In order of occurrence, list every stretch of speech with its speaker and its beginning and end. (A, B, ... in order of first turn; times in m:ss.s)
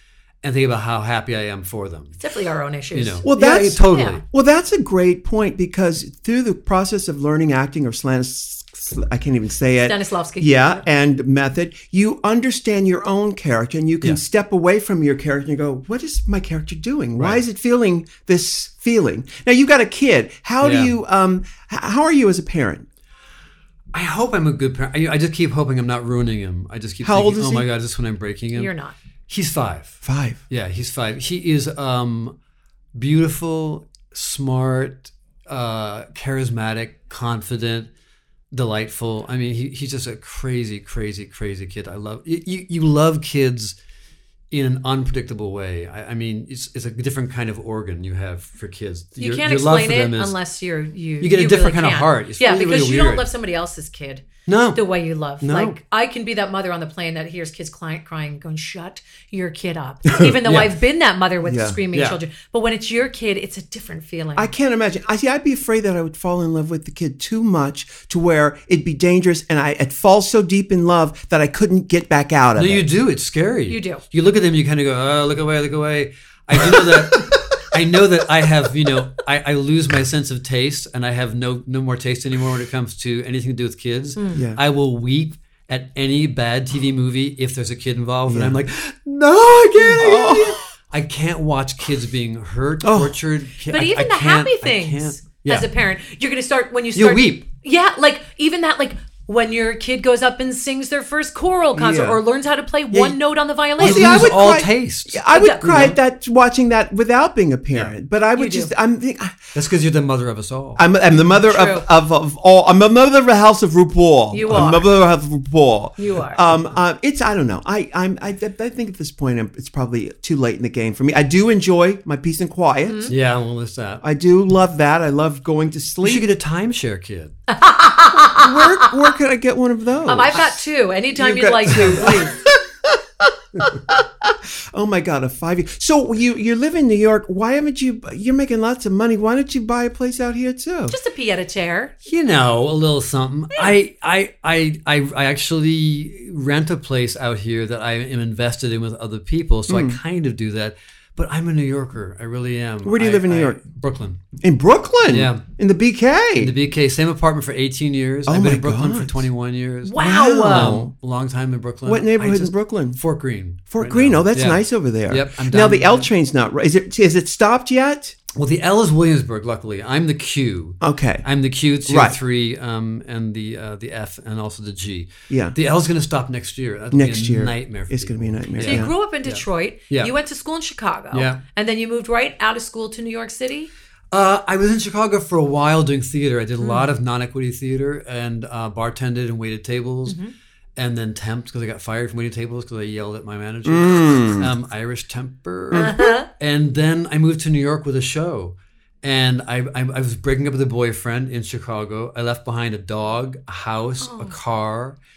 0:00.4-0:02.2 A
0:02.2-0:03.2 B
0:02.9-0:04.2 A
0:03.2-0:22.9 C
0:03.9-0:04.2 B
0:09.8-0:10.7 B
0:17.2-0:17.4 A
0:20.6-0:20.9 A
0:23.9-0:28.7 A
0:27.0-0:27.7 C
0:28.5-0:28.9 B
0:29.3-0:32.3 A
0:30.0-0:30.4 C
0:32.9-0:37.9 A
0:38.5-0:43.7 A
0:44.5-0:50.4 A
0:49.2-1:04.5 B
0:51.2-0:53.3 A
0:54.4-0:55.8 A
1:00.1-1:00.3 C
1:00.4-1:00.7 A
1:01.4-1:01.8 C
1:01.9-1:02.2 A
1:04.4-1:12.8 C
1:12.6-1:35.7 A
1:13.7-1:14.0 B
1:16.6-1:17.4 C
1:24.2-1:24.4 B
1:24.3-1:24.6 C
1:28.3-1:28.6 C
1:30.0-1:30.6 C
1:32.8-1:33.2 C
1:33.7-1:44.3 B
1:36.9-1:37.4 A
1:41.7-1:42.2 C
1:43.8-1:46.0 A
1:43.8-1:49.4 C
1:45.3-1:45.9 B
1:48.4-1:48.7 B
1:49.5-1:50.8 A
1:50.8-2:03.1 C
1:51.4-1:51.8 B
1:54.3-1:54.9 B
1:56.0-1:56.4 B
2:02.8-2:03.1 B
2:03.1-2:04.0 A
2:04.0-2:06.3 C
2:06.0-2:07.4 A
2:07.5-2:08.9 B
2:08.1-2:10.6 C
2:10.1-2:12.3 B
2:11.2-2:21.0 C
2:11.7-2:12.2 A
2:20.9-2:21.9 B
2:22.0-2:34.2 A
2:29.7-2:30.0 C
2:32.8-2:33.6 C
2:34.4-2:36.5 C
2:35.1-2:35.4 A
2:36.4-2:46.1 A
2:38.3-2:39.1 C
2:39.8-2:40.8 B
2:40.0-2:40.9 C
2:41.8-2:43.0 C
2:43.7-2:48.2 C
2:48.3-3:00.1 A
2:50.8-2:51.2 C
2:51.9-2:52.2 C
2:55.3-2:55.6 C
2:56.9-2:58.9 C
2:58.6-3:03.7 B
3:01.1-3:01.4 A
3:04.1-3:10.2 A
3:06.6-3:06.9 B
3:10.1-3:10.3 B
3:10.8-3:25.0 A
3:13.6-3:14.5 C
3:15.7-3:16.0 C
3:15.7-3:16.3 B
3:24.0-3:24.3 B